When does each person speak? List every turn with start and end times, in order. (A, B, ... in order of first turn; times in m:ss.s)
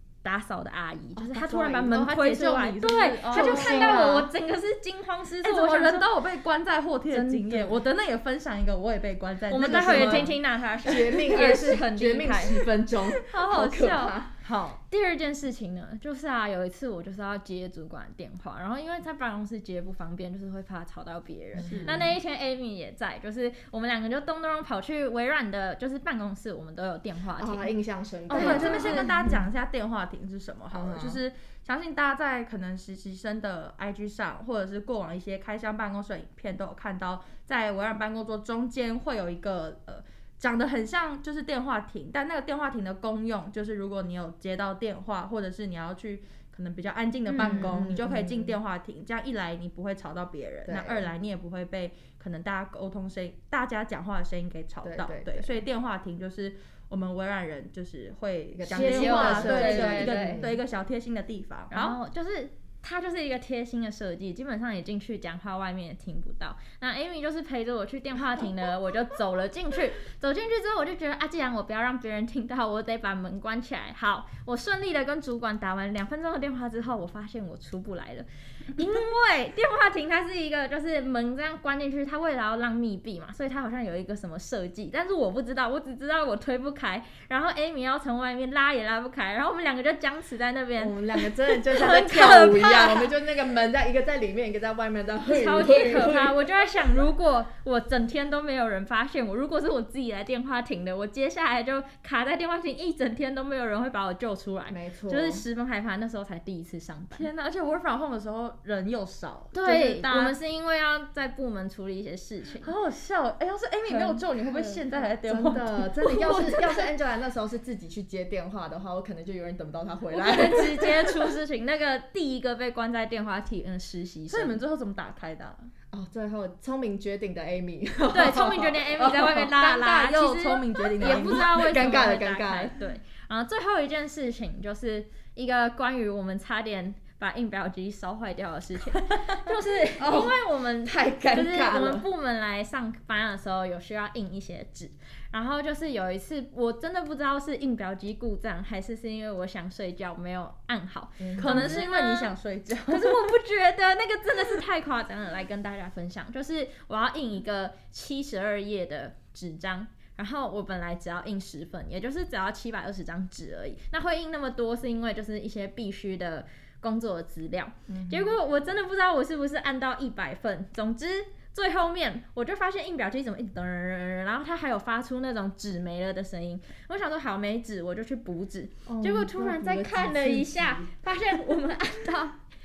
0:00.2-0:06.1 A
0:01.1-0:01.9 B
0:01.9-0:04.1 C
0:03.3-0:04.3 B
0:05.4-0:10.3 C
0:07.2-0:07.8 B
0:09.5-0:12.6 A
0:09.6-0:14.3 B
0:13.1-0:14.8 C
0:14.9-0:27.7 A
0:21.5-0:22.2 B
0:21.6-0:22.0 C
0:27.4-0:29.5 B
0:28.3-0:29.3 A
0:28.3-1:02.0 C
0:30.7-0:31.2 B
0:47.3-0:47.8 A
0:47.4-0:48.6 B
0:50.6-0:51.1 B
0:54.8-0:55.6 B
0:58.5-1:00.6 B
0:58.7-1:00.4 A
1:01.7-1:33.1 A
1:30.8-1:36.4 B
1:35.3-1:47.3 A
1:44.7-1:45.4 B
1:47.1-1:50.4 C
1:49.5-1:52.7 A
1:52.6-1:56.8 C
1:53.9-2:01.4 B
2:00.1-2:04.6 A
2:04.3-2:05.7 C
2:05.9-2:09.3 B
2:08.1-2:32.3 A
2:09.0-2:12.0 C
2:10.9-2:12.7 B
2:20.0-2:22.1 B
2:31.2-2:31.8 B
2:31.4-2:33.3 C
2:32.9-3:02.4 A
2:47.9-2:48.3 B
2:58.8-3:00.9 B